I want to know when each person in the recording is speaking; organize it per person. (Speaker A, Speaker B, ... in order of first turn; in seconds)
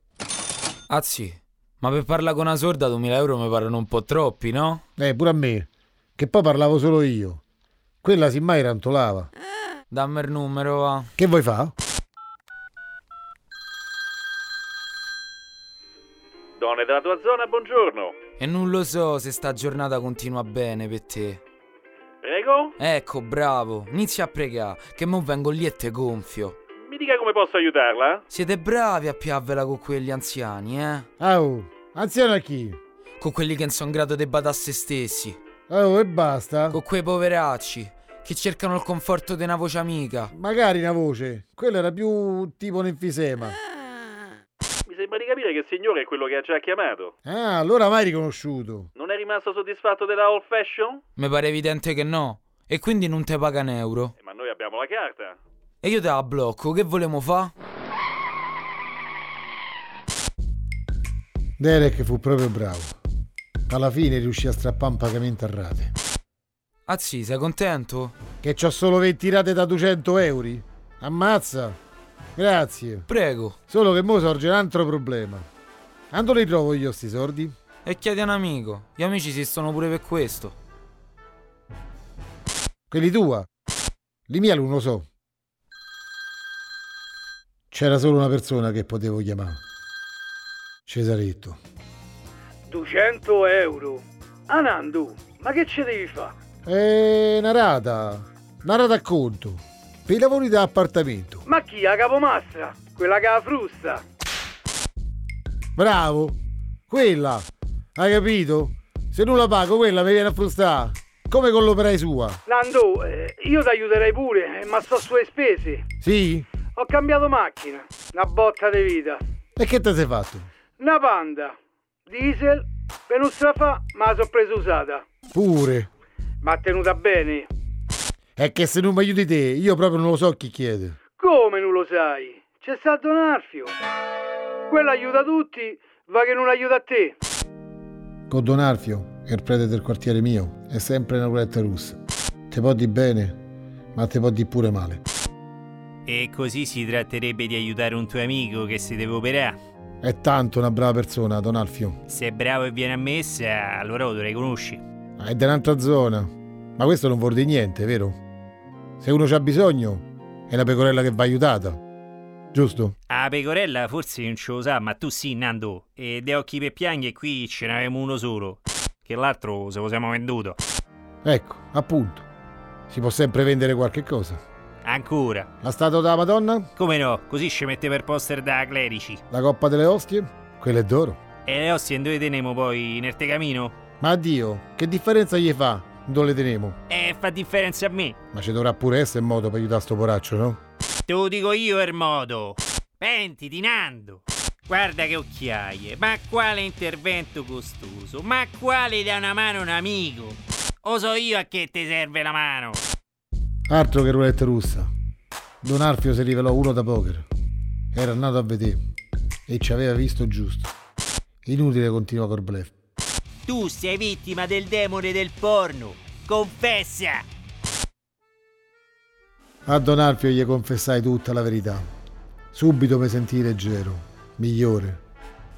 Speaker A: 0.9-4.8, 9.9-11.1, 18.4-21.4, 22.8-26.6, 28.3-31.1, 33.2-35.4, 36.7-40.3, 51.1-54.1, 55.8-57.5, 66.9-68.1, 73.1-73.6, 77.8-80.5
Speaker B: 5.0-7.4, 8.0-9.3, 11.2-11.8, 31.2-32.8, 35.7-36.8, 40.3-43.5, 47.2-48.9, 61.6-62.9, 63.7-65.9, 68.4-71.8, 72.3-73.1, 73.7-75.5, 76.1-77.5, 82.9-83.5, 84.3-85.1, 87.7-89.6, 90.9-91.6, 96.7-101.5, 105.8-106.4, 106.9-112.4, 116.0-116.5, 119.6-120.5, 125.3-125.9, 128.4-131.0, 138.3-142.0, 142.5-143.4, 143.9-145.0, 150.0-152.0, 155.2-158.2, 159.0-161.8, 162.5-162.9, 171.2-172.2, 172.9-174.4, 175.6-176.7, 179.3-181.2, 184.0-186.8, 188.3-190.6, 203.7-204.9, 205.6-207.3, 207.9-208.8, 209.5-210.7, 211.4-212.7, 219.7-221.8, 222.5-225.0
Speaker C: 16.6-18.2, 22.2-22.7, 26.8-28.2, 44.9-47.1, 49.0-51.0, 54.2-55.4
Speaker D: 92.7-96.3, 101.5-104.0, 112.5-115.8, 116.8-119.2, 120.8-121.5, 122.1-125.0, 126.4-127.5, 131.2-133.7, 134.7-137.1
Speaker E: 146.1-149.6, 152.1-154.8, 163.1-170.6, 174.8-175.5, 176.8-179.2, 181.4-183.7, 186.9-188.2, 191.1-202.8, 213.5-217.2